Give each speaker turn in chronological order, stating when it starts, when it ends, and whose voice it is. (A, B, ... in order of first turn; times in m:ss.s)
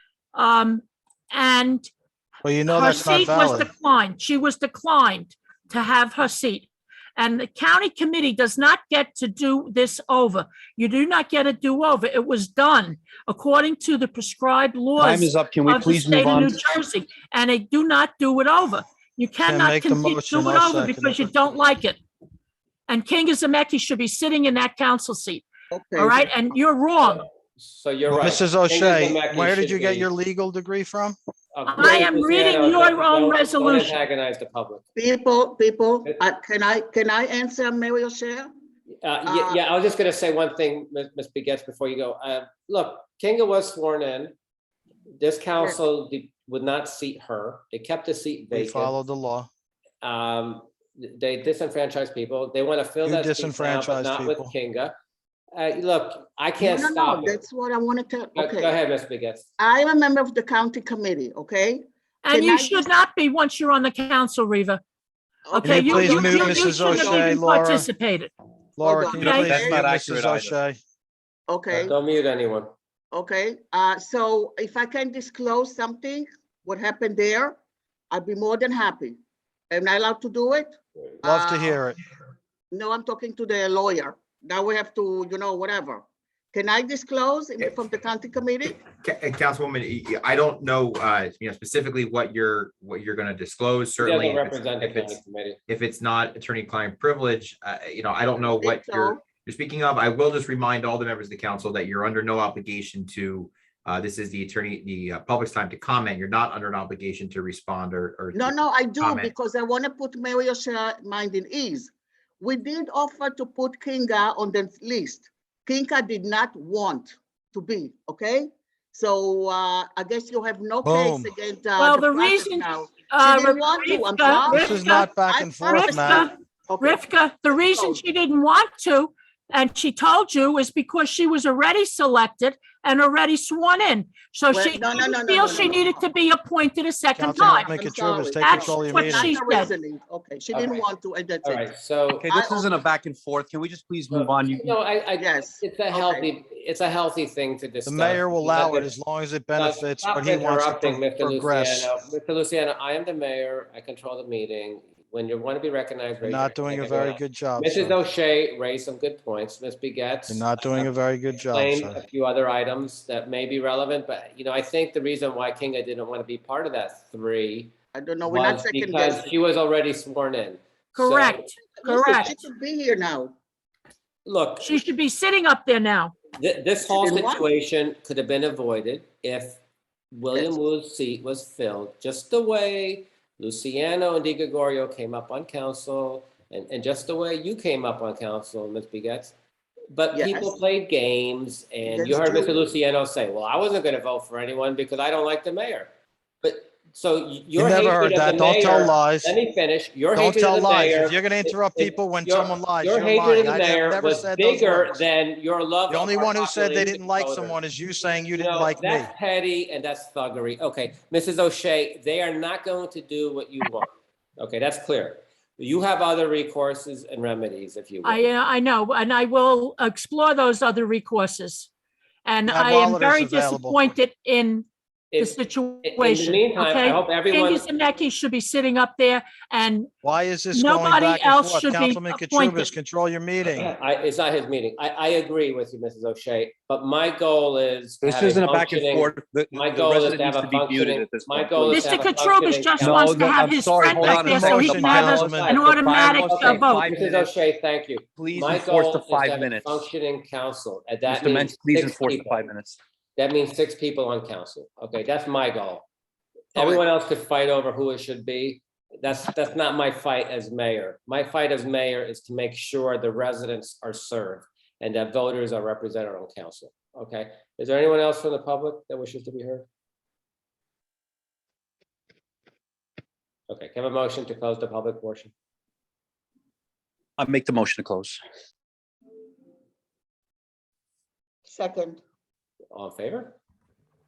0:00.3-0:01.9 A
0:02.4-0:03.7 B
0:02.7-0:22.0 A
0:15.0-0:16.6 C
0:19.4-0:21.2 B
0:22.9-0:27.2 A
0:25.7-0:26.3 D
0:27.6-0:30.1 E
0:28.1-0:31.2 B
0:31.5-0:34.8 E
0:31.7-0:34.0 A
0:35.0-0:38.5 D
0:39.0-0:44.3 E
0:39.2-0:39.6 D
0:45.2-0:48.9 E
0:48.5-0:49.5 B
0:50.0-0:54.9 E
0:53.0-0:54.5 B
0:55.5-0:57.4 E
0:56.6-0:58.7 D
0:58.4-0:59.5 E
0:59.6-1:02.9 D
1:02.2-1:04.8 A
1:05.5-1:07.3 D
1:05.6-1:08.3 A
1:05.6-1:07.9 B
1:08.8-1:10.8 B
1:08.8-1:09.8 D
1:09.1-1:09.5 A
1:09.2-1:10.6 C
1:11.5-1:11.9 D
1:11.7-1:12.7 E
1:13.1-1:17.6 D
1:18.1-1:19.2 D
1:19.7-1:21.8 D
1:21.2-1:22.0 B
1:22.7-1:28.8 D
1:28.8-1:49.3 F
1:34.0-1:35.6 E
1:38.5-1:39.2 D
1:48.3-2:07.0 D
2:00.8-2:01.3 B
2:01.8-2:05.1 A
2:04.5-2:06.3 B
2:05.7-2:17.7 A
2:07.5-2:08.0 D
2:14.5-2:16.0 D
2:17.1-2:19.4 B
2:17.3-2:21.7 D
2:18.4-2:19.7 A
2:20.5-2:20.8 E
2:21.4-2:22.3 E
2:22.1-2:24.8 C
2:22.3-2:22.7 D
2:24.1-2:28.9 E
2:25.2-2:26.3 D
2:27.8-2:31.9 B
2:29.5-2:47.7 E
2:36.2-2:38.0 B
2:40.3-2:42.0 B
2:47.9-2:49.3 D
2:48.2-2:51.5 E
2:51.0-2:52.3 A
2:51.7-2:53.3 D
2:54.2-2:54.8 E
2:54.6-2:56.1 A
2:56.4-2:59.6 E
2:56.8-2:57.5 D
3:00.1-3:09.3 E
3:09.9-3:15.9 E
3:10.1-3:10.6 D
3:11.8-3:12.7 D
3:16.4-3:27.6 E
3:17.6-3:19.3 B
3:20.1-3:25.0 B
3:25.9-3:29.1 B
3:28.3-3:38.3 E
3:38.0-3:41.7 A
3:42.2-3:44.7 A
3:42.5-3:43.8 B
3:45.1-3:47.6 E
3:45.2-3:49.9 A
3:50.0-3:53.7 B
3:50.5-3:52.7 A
3:53.5-4:03.4 E
3:58.0-4:02.2 C
4:01.7-4:06.9 A
4:02.8-4:07.3 C
4:04.0-4:05.6 B
4:04.7-4:12.5 E
4:08.2-4:09.9 C
4:11.0-4:12.8 C
4:13.2-4:15.8 E
4:16.5-4:29.7 E
4:33.5-4:35.3 E
4:37.2-4:38.2 C
4:41.5-4:42.0 D
4:42.7-4:43.4 E